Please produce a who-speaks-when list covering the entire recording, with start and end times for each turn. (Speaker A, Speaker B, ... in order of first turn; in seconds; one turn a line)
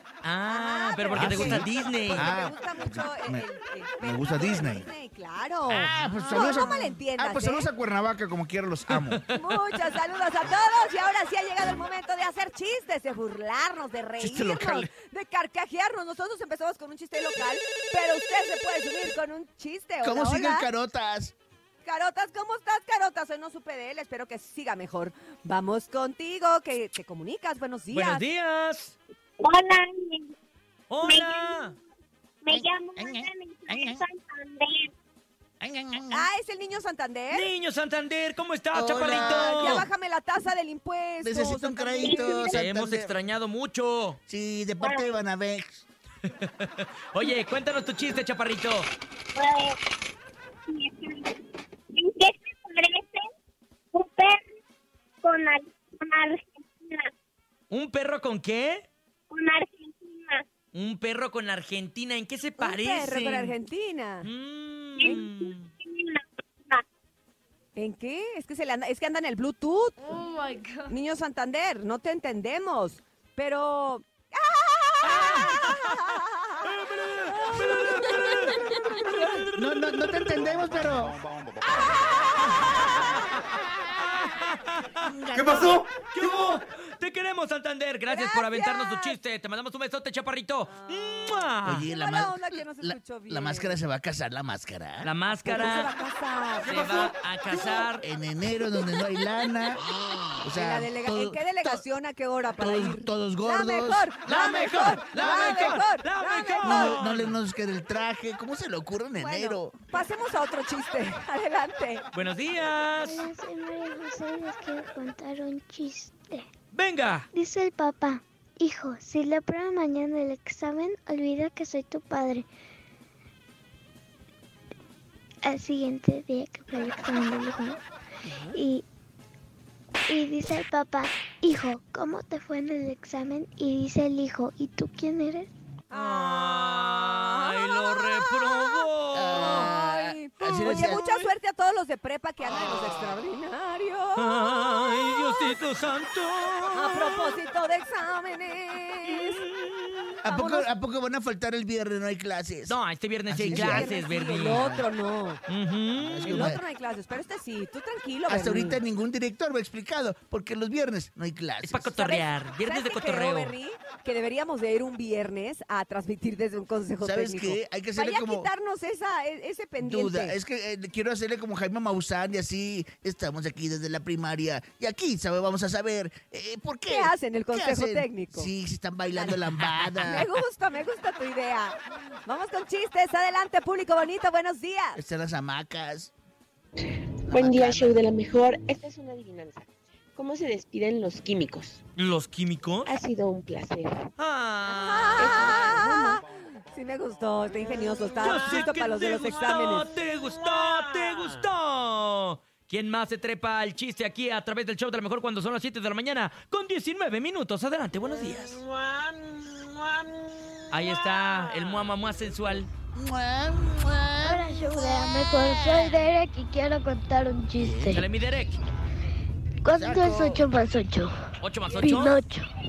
Speaker A: 0.2-2.3
Speaker B: 0.5-7.7
Speaker C: 1.1-3.5
Speaker C: 4.0-4.9
Speaker A: 5.7-6.6
Speaker C: 5.7-9.2
Speaker A: 8.9-9.3
Speaker B: 9.3-20.7
Speaker C: 14.2-14.9
Speaker C: 20.0-21.3
Speaker B: 21.8-28.2
Speaker A: 27.9-29.0
Speaker D: 29.5-30.3
Speaker A: 30.9-31.8
Speaker D: 32.5-34.9
Speaker C: 32.5-34.0
Speaker C: 35.6-36.3
Speaker B: 36.1-37.5
Speaker A: 37.3-39.9
Speaker C: 38.7-39.9
Speaker B: 39.1-42.4
Speaker C: 41.2-43.2
Speaker A: 42.4-44.2
Speaker C: 44.3-45.9
Speaker A: 46.4-48.9
Speaker D: 49.4-49.8
Speaker D: 50.7-51.4
Speaker D: 52.0-53.2
Speaker D: 53.9-54.4
Speaker D: 55.2-57.1
Speaker A: 57.7-58.9
Speaker D: 59.3-60.4
Speaker A: 60.7-63.6
Speaker B: 62.6-64.3
Speaker A: 64.2-65.7
Speaker D: 65.8-66.8
Speaker B: 67.8-70.0
Speaker B: 70.9-76.7
Speaker A: 75.0-76.0
Speaker A: 76.6-80.4
Speaker B: 77.5-78.1
Speaker B: 78.9-79.3
Speaker C: 79.5-81.2
Speaker B: 81.7-83.1
Speaker A: 83.7-91.9
Speaker C: 85.0-85.9
Speaker B: 88.1-89.2
Speaker B: 90.7-93.8
Speaker C: 91.6-95.1
Speaker A: 95.0-95.9
Speaker B: 95.4-97.1
Speaker A: 96.6-98.0
Speaker C: 98.0-99.8
Speaker C: 100.4-101.8
Speaker B: 100.5-107.0
Speaker C: 102.6-105.8
Speaker A: 104.3-107.4
Speaker C: 106.6-109.8
Speaker B: 109.2-112.0
Speaker A: 112.1-113.3
Speaker E: 113.0-116.5
Speaker A: 116.7-117.3
Speaker E: 117.3-122.5
Speaker E: 125.4-127.8
Speaker B: 128.2-128.6
Speaker E: 128.5-128.8
Speaker E: 130.1-135.5
Speaker B: 135.9-137.6
Speaker A: 135.9-139.7
Speaker C: 139.1-141.0
Speaker B: 139.3-144.7
Speaker A: 140.4-141.3
Speaker A: 144.2-147.4
Speaker B: 146.8-149.4
Speaker A: 149.1-150.2
Speaker C: 150.2-152.8
Speaker B: 150.2-150.7
Speaker A: 152.7-154.8
Speaker C: 153.3-153.9
Speaker B: 153.3-155.4
Speaker A: 155.5-156.6
Speaker C: 156.0-156.6
Speaker B: 156.2-158.8
Speaker C: 158.3-161.9
Speaker A: 161.6-163.6
Speaker B: 162.0-170.4
Speaker C: 167.0-168.5
Speaker C: 169.8-180.3
Speaker B: 176.9-178.5
Speaker A: 179.5-180.3
Speaker B: 180.0-185.0
Speaker C: 184.9-186.1
Speaker F: 186.8-191.8
Speaker C: 187.3-188.1
Speaker A: 192.0-192.9
Speaker F: 192.8-194.1
Speaker A: 194.2-195.6
Speaker B: 194.7-199.9
Speaker F: 195.2-196.2
Speaker A: 198.2-208.6
Speaker F: 200.4-201.4
Speaker F: 208.3-210.4
Speaker A: 210.7-212.7
Speaker C: 212.9-216.1
Speaker E: 214.2-218.0
Speaker A: 217.6-218.6
Speaker E: 219.6-221.1
Speaker C: 219.7-220.4
Speaker A: 221.4-222.2
Speaker E: 221.8-222.5